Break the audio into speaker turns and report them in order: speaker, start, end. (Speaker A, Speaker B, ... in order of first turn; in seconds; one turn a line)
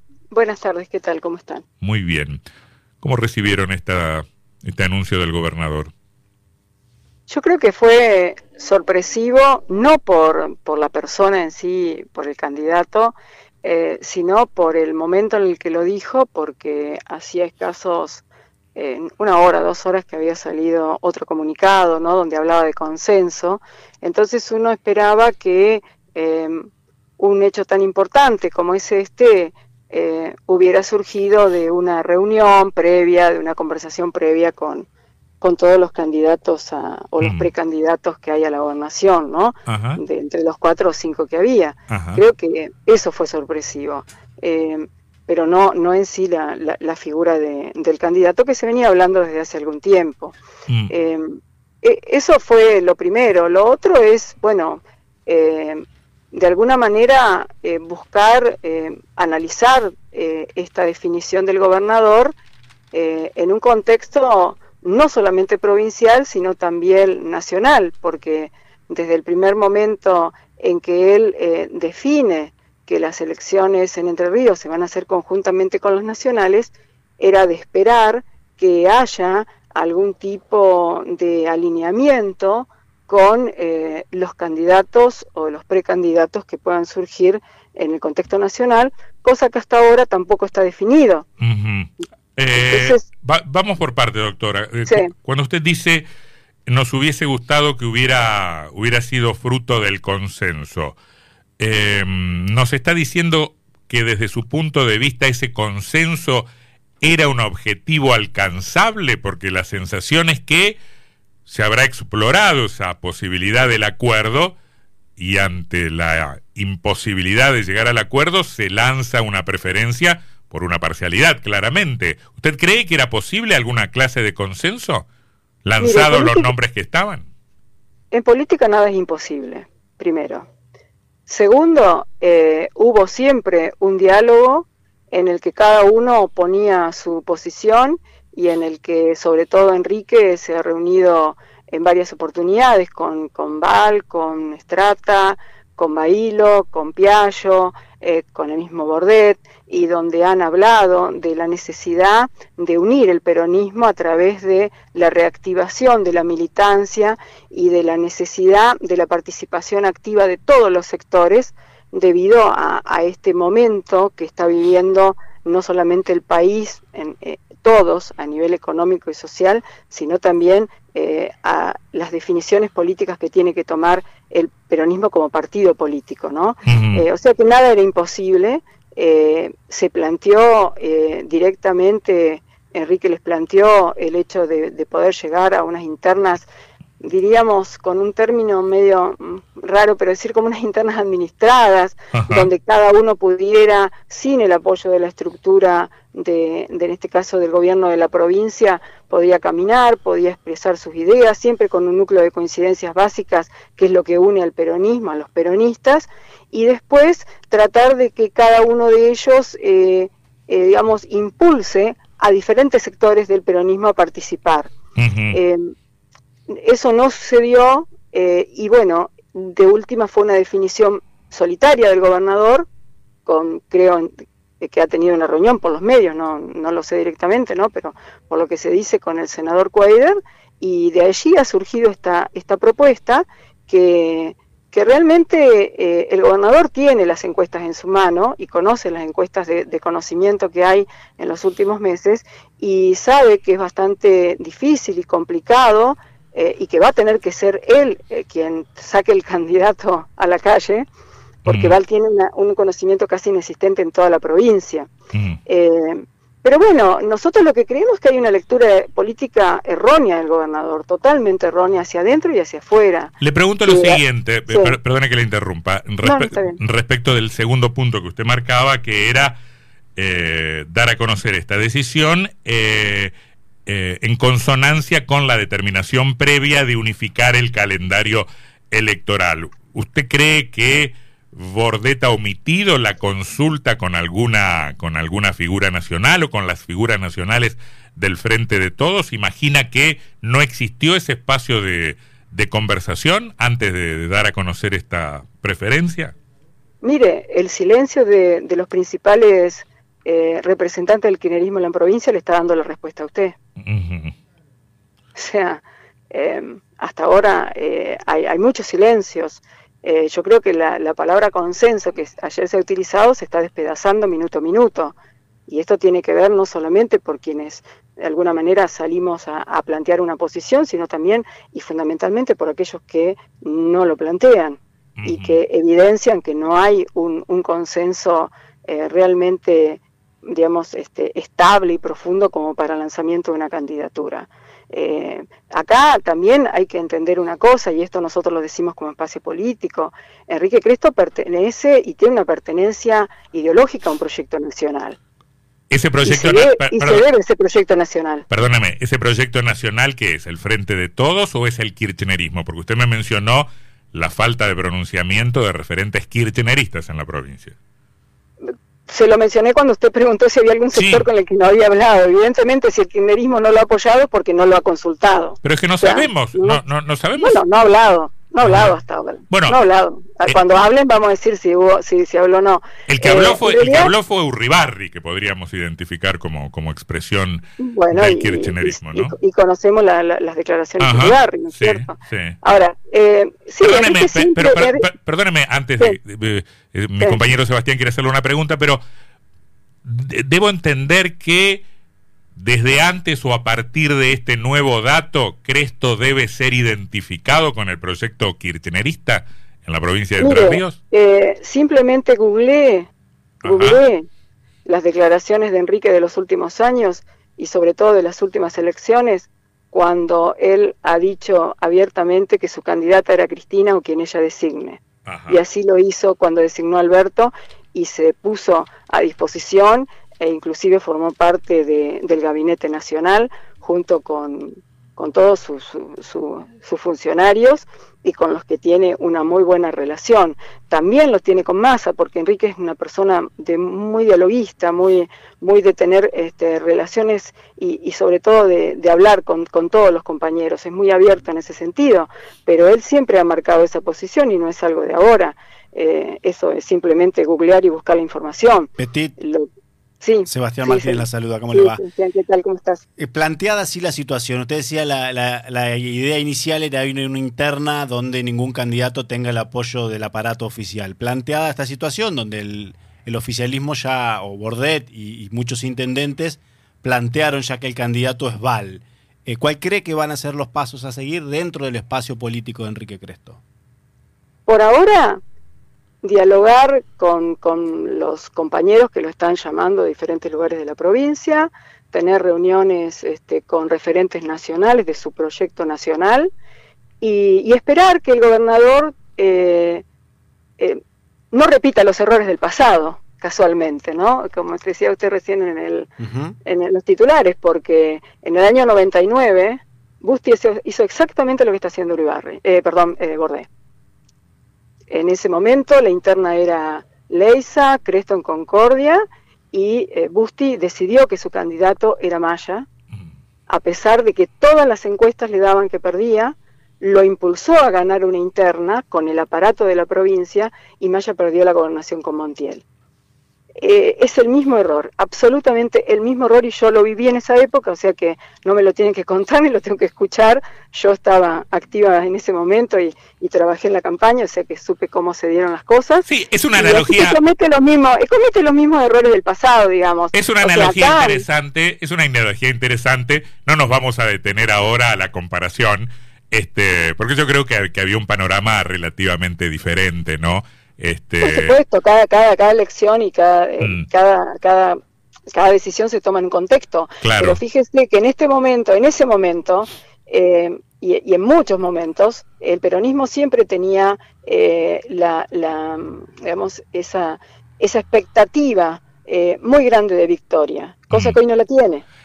Speaker A: 0.3-1.6
Speaker B: 1.8-2.4
Speaker B: 3.0-5.9
Speaker A: 7.3-18.2
Speaker A: 18.8-26.7
Speaker A: 27.2-34.9
Speaker A: 35.4-50.4
Speaker B: 37.2-37.5
Speaker B: 39.7-40.0
Speaker B: 41.9-42.2
Speaker A: 50.9-62.3
Speaker A: 62.9-91.2
Speaker B: 91.4-96.0
Speaker A: 92.5-93.1
Speaker B: 96.7-101.0
Speaker B: 101.6-106.5
Speaker B: 107.0-110.8
Speaker B: 111.5-114.5
Speaker B: 115.2-125.1
Speaker B: 125.7-127.3
Speaker A: 125.8-126.5
Speaker A: 128.1-130.5
Speaker A: 131.3-186.5
Speaker B: 176.7-177.1
Speaker A: 187.0-214.7
Speaker B: 192.1-192.5
Speaker B: 215.0-215.4
Speaker A: 215.3-215.7
Speaker A: 216.5-222.7
Speaker A: 223.3-250.9
Speaker B: 251.4-251.8
Speaker A: 251.5-254.9
Speaker B: 255.1-255.4
Speaker A: 255.5-263.1
Speaker B: 263.2-269.4
Speaker A: 263.6-264.8
Speaker A: 266.0-266.6
Speaker B: 270.0-273.1
Speaker B: 273.7-296.1
Speaker A: 296.8-303.4
Speaker B: 303.6-304.1
Speaker A: 305.2-314.9
Speaker A: 315.5-345.0
Speaker B: 325.0-325.4
Speaker B: 345.7-347.0
Speaker A: 346.0-348.2
Speaker B: 348.3-357.6
Speaker A: 358.9-366.6
Speaker B: 360.7-361.1
Speaker B: 365.4-367.5
Speaker A: 367.2-373.9
Speaker B: 368.4-368.8
Speaker B: 369.3-369.6
Speaker B: 370.3-370.6
Speaker B: 372.9-379.1
Speaker A: 377.6-384.9
Speaker B: 380.8-382.4
Speaker B: 383.6-388.8
Speaker B: 389.8-391.6
Speaker B: 392.4-400.8
Speaker A: 400.2-402.9
Speaker B: 403.4-403.8
Speaker A: 403.4-404.1
Speaker A: 404.7-449.5
Speaker B: 415.1-415.4
Speaker C: 448.8-449.2
Speaker A: 450.0-452.8
Speaker C: 450.2-451.8
Speaker C: 453.0-473.4
Speaker A: 474.5-475.2
Speaker A: 476.0-486.3
Speaker A: 487.0-489.8
Speaker A: 491.3-495.9
Speaker C: 496.0-496.4
Speaker A: 496.4-503.5
Speaker A: 504.9-512.7
Speaker A: 513.5-522.6
Speaker A: 523.6-541.3
Speaker B: 536.0-537.2
Speaker B: 540.1-551.5
Speaker A: 551.2-554.8
Speaker B: 553.6-553.9
Speaker A: 555.3-571.8
Speaker B: 557.0-557.4
Speaker B: 570.9-571.2